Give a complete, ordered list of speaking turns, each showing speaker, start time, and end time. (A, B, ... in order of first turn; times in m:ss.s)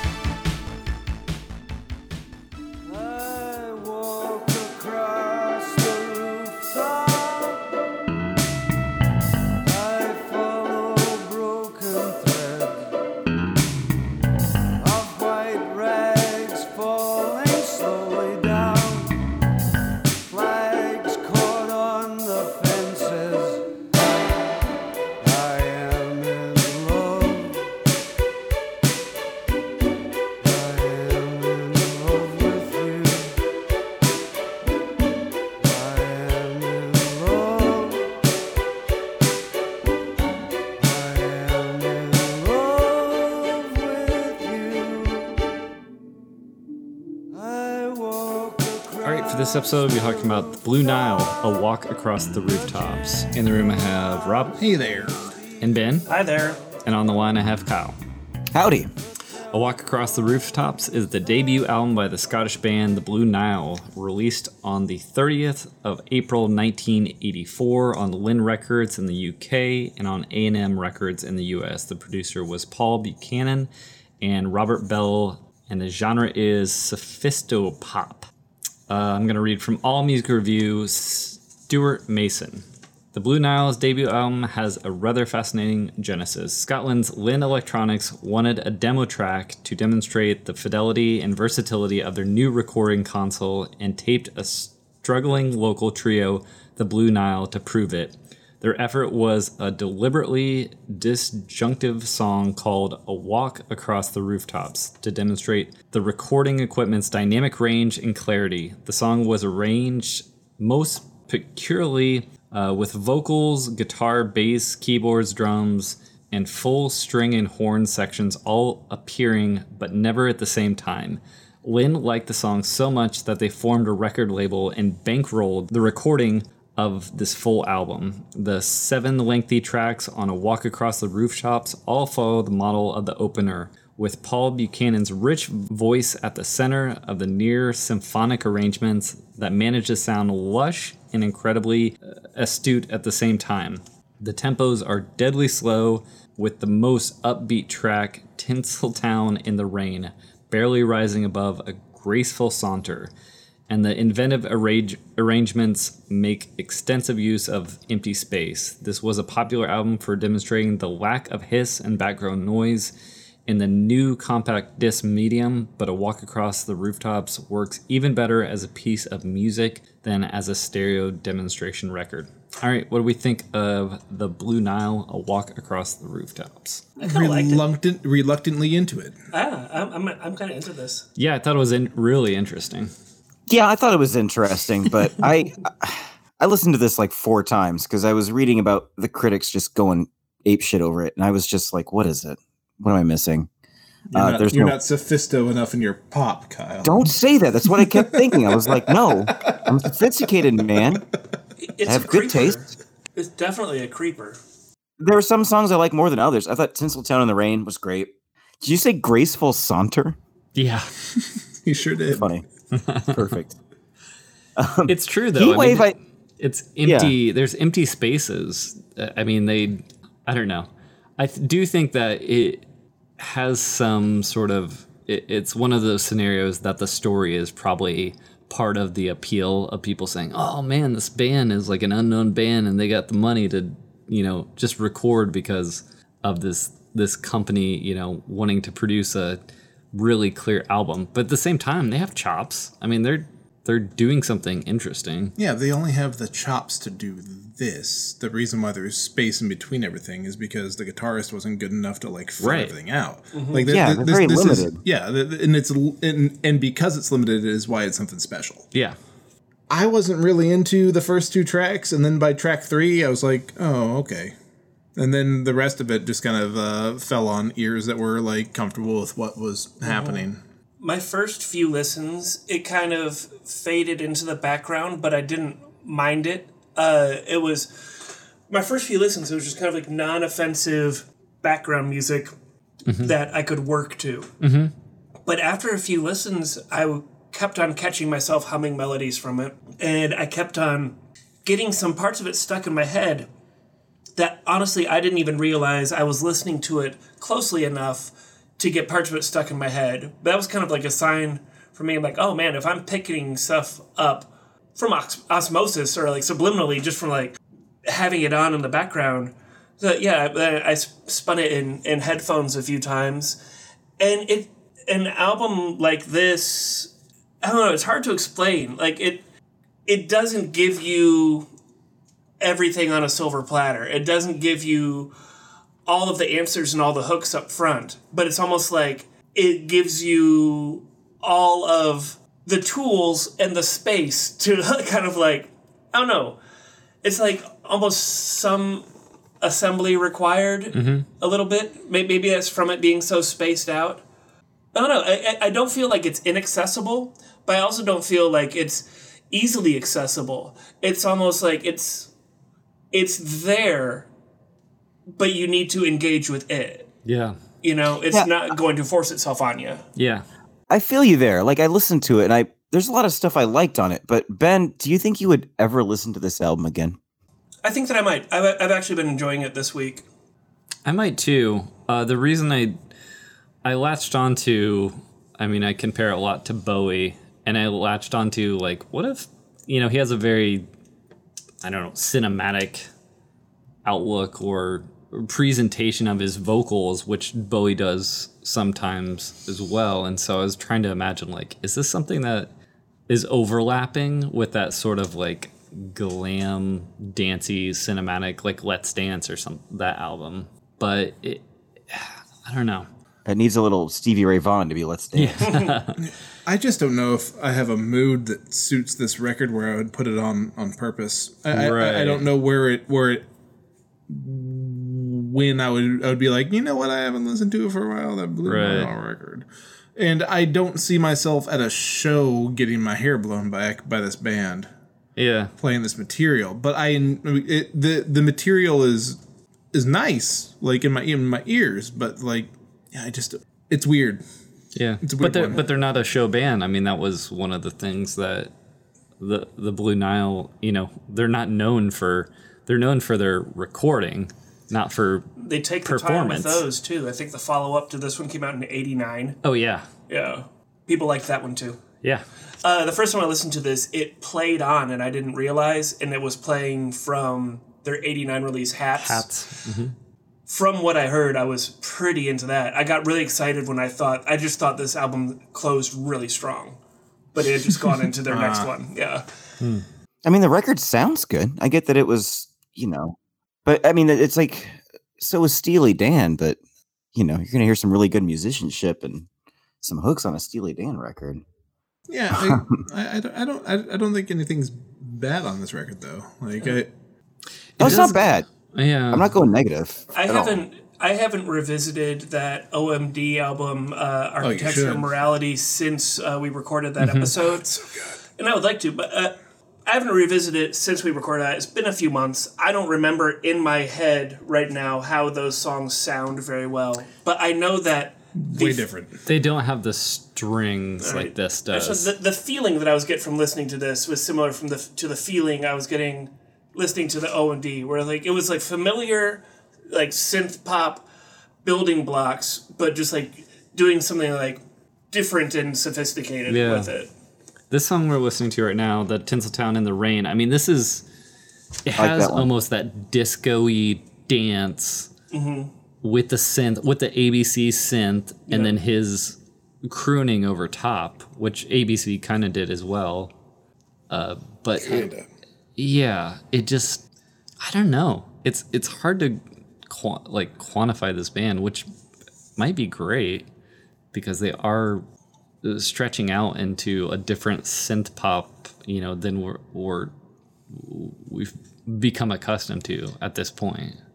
0:02.9-0:07.7 A
0:09.6-0:12.9 A
0:14.8-0:19.1 A
0:20.3-0:23.6 A
0:25.2-0:27.7 A
0:30.4-0:33.3 A
0:35.6-0:38.1 A
0:40.8-0:45.3 A
0:47.3-0:50.5 A
0:49.0-0:54.6 B
0:54.6-0:55.3 C
0:55.6-0:56.1 B
0:56.1-0:56.6 D
0:56.8-0:58.0 B
0:58.5-0:58.9 E
0:59.5-1:18.3 B
1:18.9-2:33.1 B
2:33.7-2:42.9 B
2:43.5-2:56.8 B
2:57.0-2:57.6 D
2:57.0-2:59.2 C
2:59.3-3:01.1 D
3:01.2-3:02.9 B
3:03.5-3:13.5 E
3:14.1-3:19.9 C
3:14.1-3:14.8 E
3:16.8-3:21.1 E
3:21.6-3:24.4 D
3:21.9-3:22.6 E
3:25.0-3:30.2 E
3:30.6-3:30.9 B
3:31.1-3:32.3 C
3:32.1-3:32.4 E
3:32.7-3:33.2 B
3:33.1-3:33.6 E
3:34.6-3:35.9 E
3:34.9-3:42.7 B
3:36.8-3:37.2 E
3:43.2-3:59.4 B
3:59.9-4:05.4 B
4:05.4-4:18.7 C
4:12.4-4:12.7 B
4:13.3-4:13.7 D
4:13.7-4:14.8 E
4:19.7-4:24.4 C
4:25.0-4:30.4 C
4:29.9-4:30.2 D
4:30.8-4:42.3 D
4:42.9-4:43.1 B
4:43.0-4:44.3 D
4:44.4-4:44.7 B
4:45.3-4:53.3 D
4:54.2-5:13.4 D
5:14.0-5:19.2 D
5:19.9-5:21.5 D
5:22.4-5:25.1 D
5:25.9-5:36.4 D
5:37.0-5:38.9 D
5:39.4-5:44.0 D
5:40.7-5:41.1 B
5:44.7-5:52.1 D
5:52.9-5:54.1 D
5:55.1-5:56.9 D
5:57.0-5:57.4 B
5:57.6-5:59.8 D
6:00.0-6:00.2 B
6:00.7-6:07.0 E
6:07.6-6:10.1 D
6:10.8-6:12.8 B
6:13.6-6:20.7 B
6:21.6-6:22.9 B
6:23.8-6:32.5 B
6:33.1-6:42.9 B
6:43.2-6:45.7 E
6:45.1-6:46.0 B
6:46.0-6:53.3 C
6:51.5-6:52.3 B
6:54.1-7:04.7 C
6:58.4-6:58.9 B
7:05.2-7:05.5 B
7:05.6-7:09.2 C
7:09.7-7:14.2 C
7:14.8-7:18.5 B
7:15.0-7:15.6 C
7:19.2-7:25.3 B
7:25.4-7:29.4 D
7:25.8-7:26.6 B
7:29.4-7:29.9 B
7:30.1-7:31.8 D
7:32.6-7:39.3 D
7:39.0-7:39.9 B
7:40.5-7:46.8 D
7:47.3-7:49.3 D
7:48.3-7:48.7 C
7:50.2-7:56.6 E
7:57.2-7:59.3 E
7:59.8-8:01.4 E
8:02.1-8:06.9 C
8:02.4-8:02.8 E
8:07.8-8:09.4 B
8:07.8-8:08.5 E
8:09.1-8:10.6 E
8:10.1-8:28.8 D
8:14.4-8:15.1 C
8:17.0-8:17.3 B
8:28.4-8:29.2 C
8:29.2-8:32.1 B
8:31.0-8:41.0 D
8:41.6-8:47.1 D
8:46.5-8:46.9 B
8:47.7-8:51.0 B
8:51.8-8:55.1 B
8:52.0-8:52.5 E
8:55.3-8:55.7 D
8:56.0-9:03.3 B
8:58.5-8:58.8 D
9:04.1-9:05.1 B
9:04.8-9:05.3 C
9:05.8-9:07.0 B
9:07.6-9:11.9 B
9:12.6-9:13.5 B
9:14.1-9:15.0 B
9:15.6-9:20.1 B
9:20.7-9:24.0 B